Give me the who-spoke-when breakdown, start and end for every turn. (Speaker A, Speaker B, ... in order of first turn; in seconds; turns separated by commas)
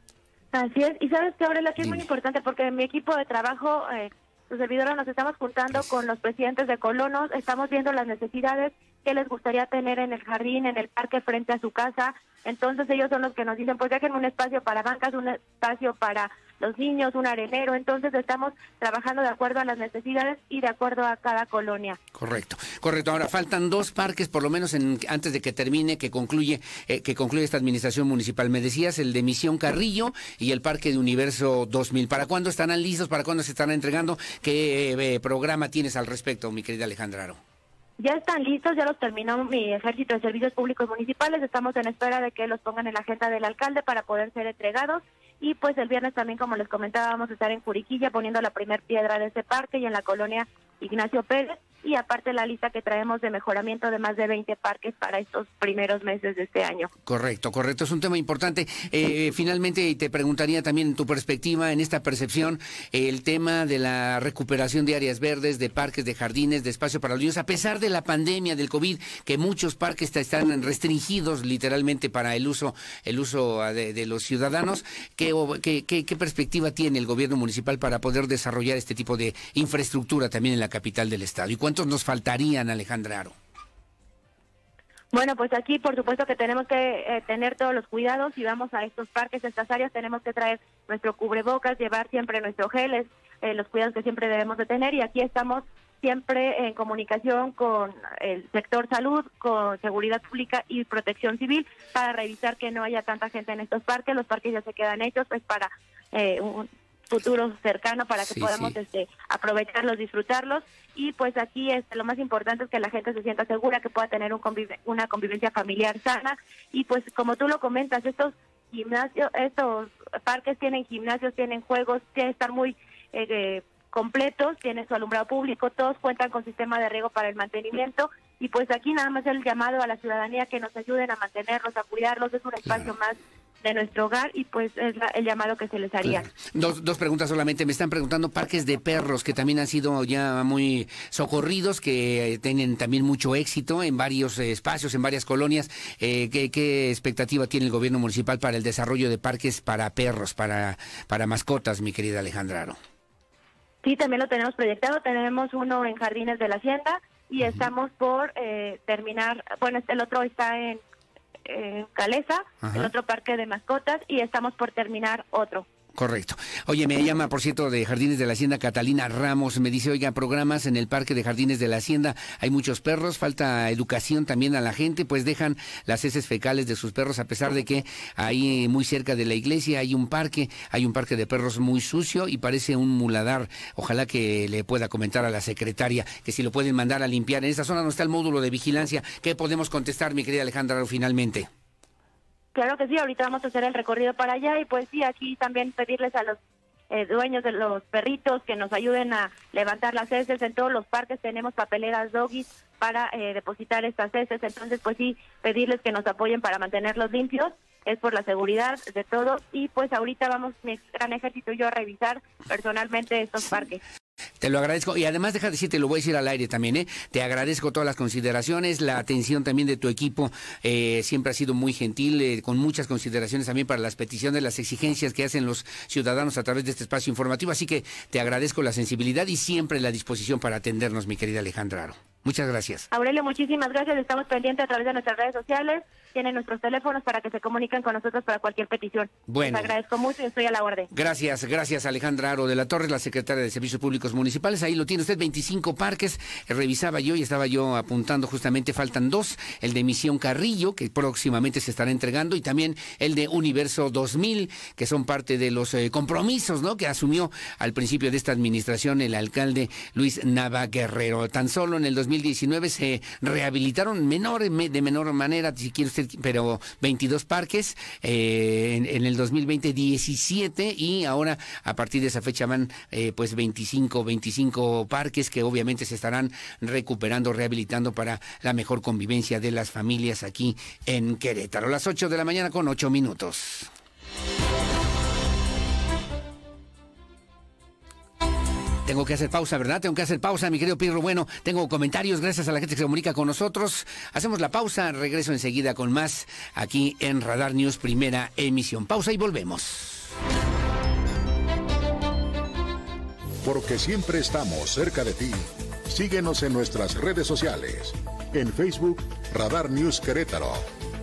Speaker A: 0.5-22.0, Speaker B: 22.1-37.4, Speaker A: 38.0-56.9, Speaker B: 57.0-83.3, Speaker A: 85.1-136.2, Speaker B: 108.3-108.7, Speaker B: 132.7-132.9, Speaker B: 136.0-152.8, Speaker A: 153.8-160.8, Speaker A: 161.5-165.7, Speaker B: 162.6-162.9, Speaker B: 165.9-191.5, Speaker A: 192.5-196.4, Speaker A: 196.9-213.8, Speaker B: 214.4-232.9, Speaker A: 232.9-240.9, Speaker B: 239.3-239.7, Speaker B: 240.9-283.7, Speaker B: 288.9-300.1, Speaker C: 303.4-310.7